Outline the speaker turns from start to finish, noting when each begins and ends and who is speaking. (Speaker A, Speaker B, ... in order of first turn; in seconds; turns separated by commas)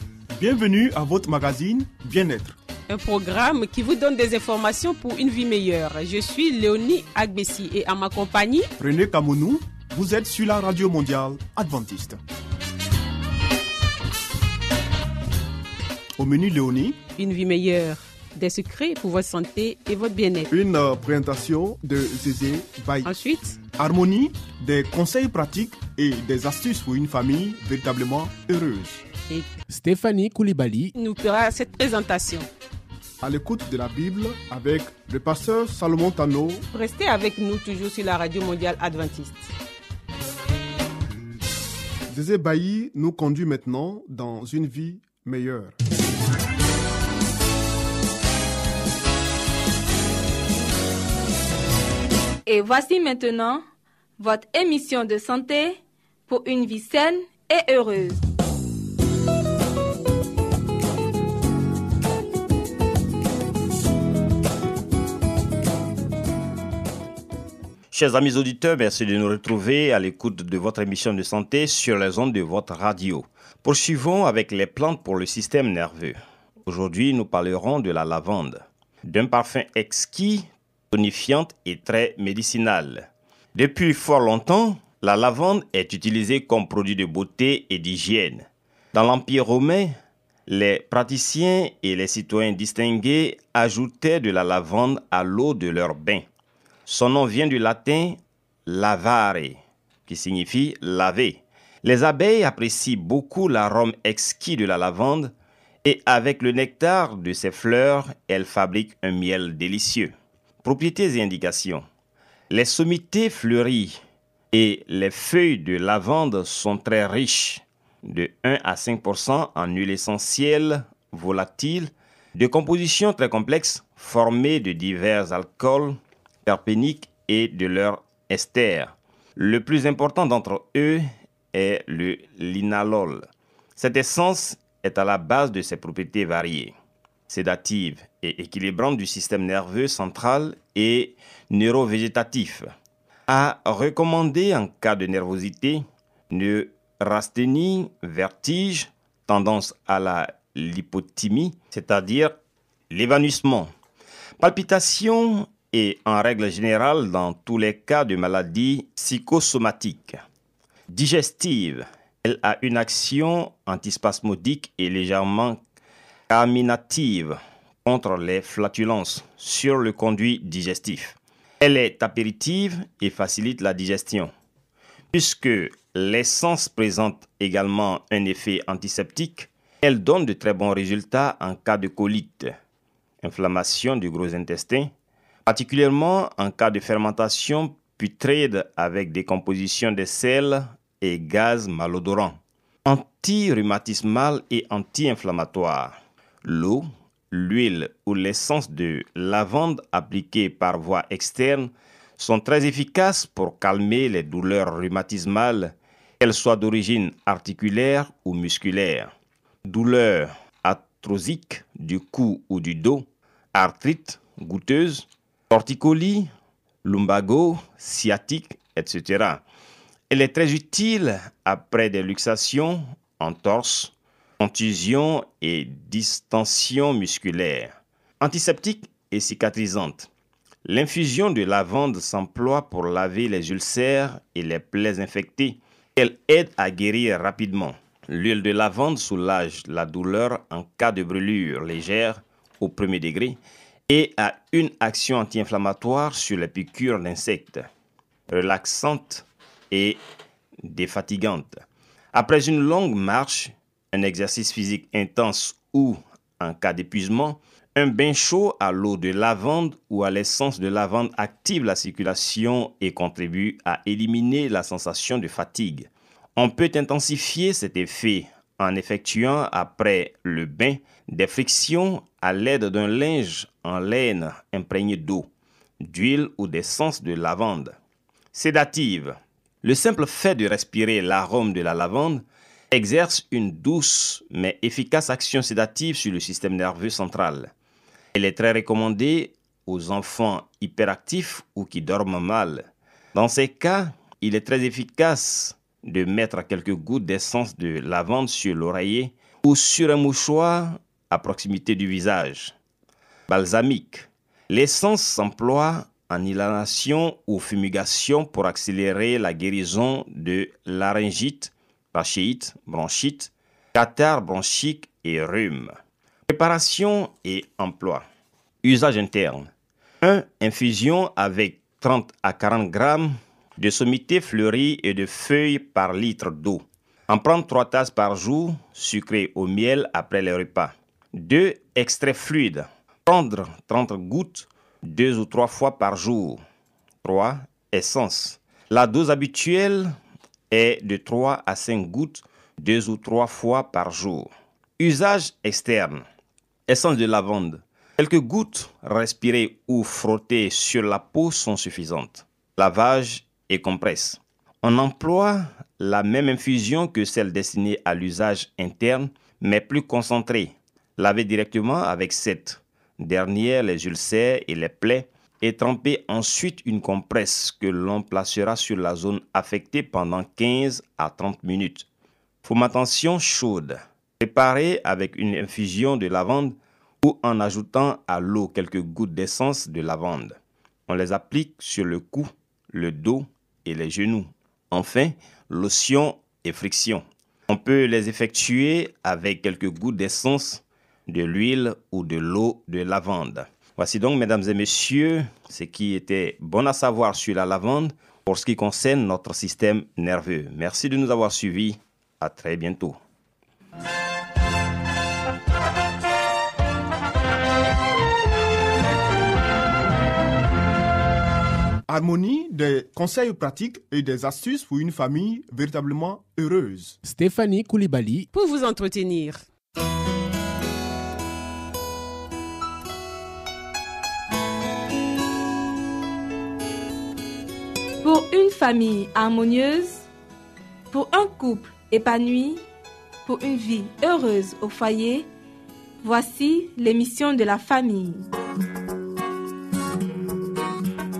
Speaker A: 0.3-2.6, Speaker B: 2.9-8.7, Speaker A: 8.8-12.2, Speaker A: 16.2-17.0, Speaker B: 17.2-20.5, Speaker A: 20.5-23.1, Speaker B: 23.0-23.6, Speaker A: 23.7-29.1, Speaker C: 29.7-30.9, Speaker B: 31.0-32.5, Speaker A: 33.2-36.6, Speaker B: 36.7-39.5, Speaker A: 42.1-45.8, Speaker D: 52.5-53.6, Speaker D: 54.2-58.2, Speaker E: 67.9-90.0, Speaker E: 90.5-96.2, Speaker E: 96.9-105.3, Speaker E: 105.8-110.1, Speaker E: 110.6-111.9, Speaker E: 112.5-114.0, Speaker E: 114.5-133.2, Speaker E: 133.8-136.7, Speaker E: 137.3-142.7, Speaker E: 143.3-152.3, Speaker E: 152.9-153.7, Speaker E: 154.4-160.2, Speaker E: 160.9-165.6, Speaker E: 166.3-174.3, Speaker E: 175.1-182.5, Speaker E: 183.2-184.9, Speaker E: 185.5-209.1, Speaker E: 209.7-216.3, Speaker E: 216.8-219.4, Speaker E: 220.1-230.1, Speaker E: 230.7-247.7, Speaker E: 248.3-250.0, Speaker E: 250.6-251.6, Speaker E: 252.1-275.3, Speaker E: 275.8-277.8, Speaker E: 278.3-287.5, Speaker E: 288.1-292.6, Speaker E: 293.1-302.5, Speaker E: 303.3-315.7, Speaker E: 316.3-318.1, Speaker E: 318.6-319.5, Speaker E: 320.0-336.4, Speaker E: 337.0-339.9, Speaker E: 340.5-346.1, Speaker E: 346.7-371.9, Speaker E: 372.4-380.4, Speaker E: 380.9-403.0, Speaker A: 411.9-417.0, Speaker C: 417.0-418.3, Speaker B: 418.3-419.4, Speaker D: 428.0-430.1, Speaker D: 430.9-432.6, Speaker D: 433.2-435.3, Speaker D: 436.0-438.3